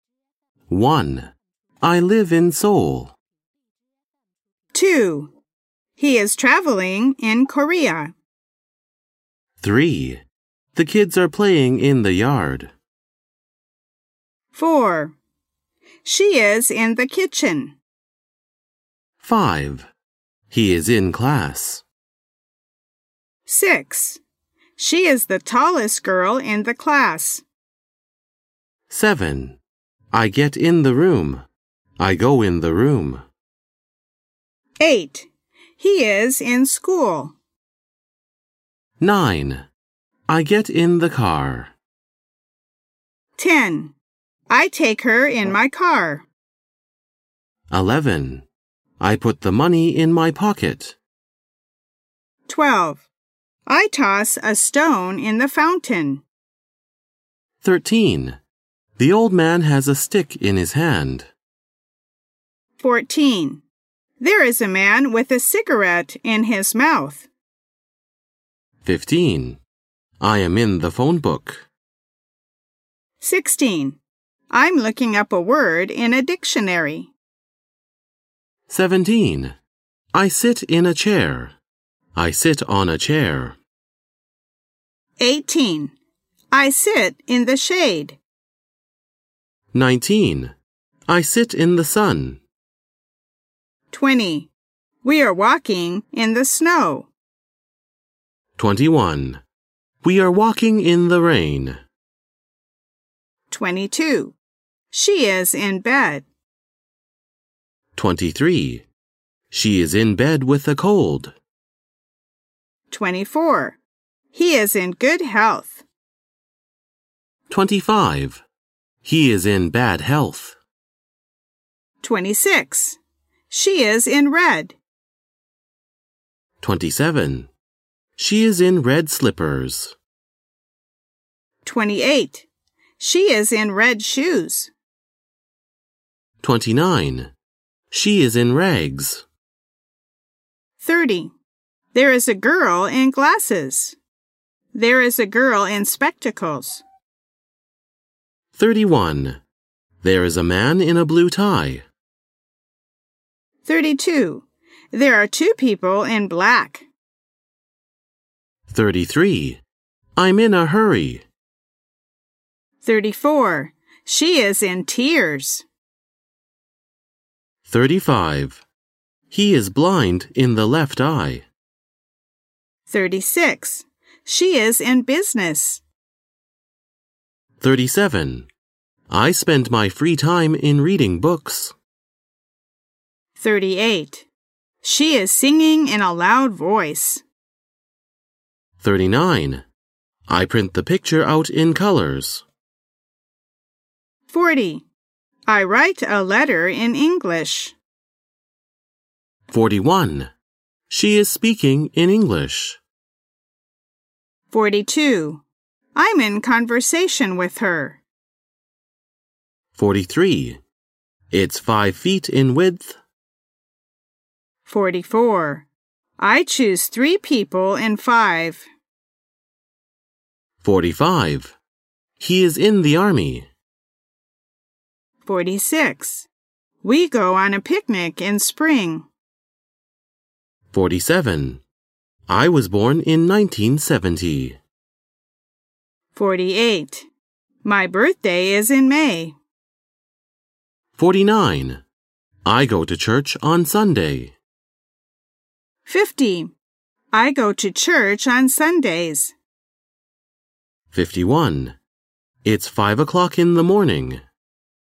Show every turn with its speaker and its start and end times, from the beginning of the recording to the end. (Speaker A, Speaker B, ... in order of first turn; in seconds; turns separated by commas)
Speaker A: 0.7-1.3, Speaker A: 1.8-3.1, Speaker B: 4.7-5.3, Speaker B: 6.0-8.1, Speaker A: 9.6-10.2, Speaker A: 10.7-12.7, Speaker B: 14.5-15.1, Speaker B: 16.0-17.8, Speaker A: 19.2-19.9, Speaker A: 20.5-21.8, Speaker B: 23.4-24.2, Speaker B: 24.8-27.4, Speaker A: 28.9-29.6, Speaker A: 30.1-31.4, Speaker A: 32.0-33.2, Speaker B: 34.8-37.3, Speaker A: 39.0-39.6, Speaker A: 40.3-41.7, Speaker B: 43.4-43.9, Speaker B: 44.5-46.2, Speaker A: 47.7-48.5, Speaker A: 49.0-51.0, Speaker B: 52.5-53.1, Speaker B: 53.6-56.2, Speaker A: 57.6-58.4, Speaker A: 59.0-61.3, Speaker B: 62.8-63.6, Speaker B: 64.2-67.3, Speaker A: 68.8-69.6, Speaker A: 70.2-71.7, Speaker B: 73.2-74.0, Speaker B: 74.5-77.1, Speaker A: 78.7-79.5, Speaker A: 80.1-81.5, Speaker A: 82.1-83.6, Speaker B: 85.2-85.9, Speaker B: 86.5-88.2, Speaker A: 89.7-90.5, Speaker A: 91.1-92.4, Speaker B: 93.9-94.5, Speaker B: 95.0-97.1, Speaker A: 98.6-99.4, Speaker A: 100.0-101.8, Speaker B: 103.5-104.3, Speaker B: 104.9-106.2, Speaker A: 107.9-108.8, Speaker A: 109.5-111.3, Speaker B: 112.9-113.8, Speaker B: 114.3-115.8, Speaker A: 117.5-118.4, Speaker A: 119.0-120.6, Speaker B: 122.0-123.0, Speaker B: 123.5-124.8, Speaker A: 126.6-127.5, Speaker A: 128.2-129.9, Speaker B: 131.6-132.5, Speaker B: 133.0-134.7, Speaker A: 136.4-137.3, Speaker A: 137.9-139.2, Speaker B: 140.8-141.3, Speaker B: 141.9-144.0, Speaker B: 144.7-146.8, Speaker A: 148.5-149.4, Speaker A: 150.0-151.8, Speaker B: 153.6-156.9, Speaker A: 158.7-159.6, Speaker A: 160.2-161.2, Speaker B: 162.8-165.7, Speaker A: 167.7-168.6, Speaker A: 169.3-171.4, Speaker B: 172.9-175.8, Speaker A: 177.6-178.5, Speaker A: 179.1-181.7, Speaker B: 183.4-184.3, Speaker B: 184.8-187.2, Speaker A: 188.8-189.6, Speaker A: 190.3-192.4, Speaker B: 194.3-194.8, Speaker B: 195.5-197.8, Speaker A: 199.5-200.3, Speaker A: 200.9-202.8, Speaker B: 204.5-205.4, Speaker B: 205.9-208.0, Speaker A: 209.7-210.6, Speaker A: 211.3-213.0, Speaker B: 214.7-215.7, Speaker B: 216.2-218.7, Speaker A: 220.6-221.6, Speaker A: 222.2-223.5, Speaker B: 225.2-226.3, Speaker B: 226.8-229.1, Speaker A: 230.7-231.6, Speaker A: 232.3-234.6, Speaker B: 236.1-237.1, Speaker B: 237.6-239.3, Speaker A: 240.9-241.8, Speaker A: 242.4-244.3, Speaker B: 245.8-246.5, Speaker B: 247.1-249.3, Speaker A: 250.9-251.8, Speaker A: 252.4-254.2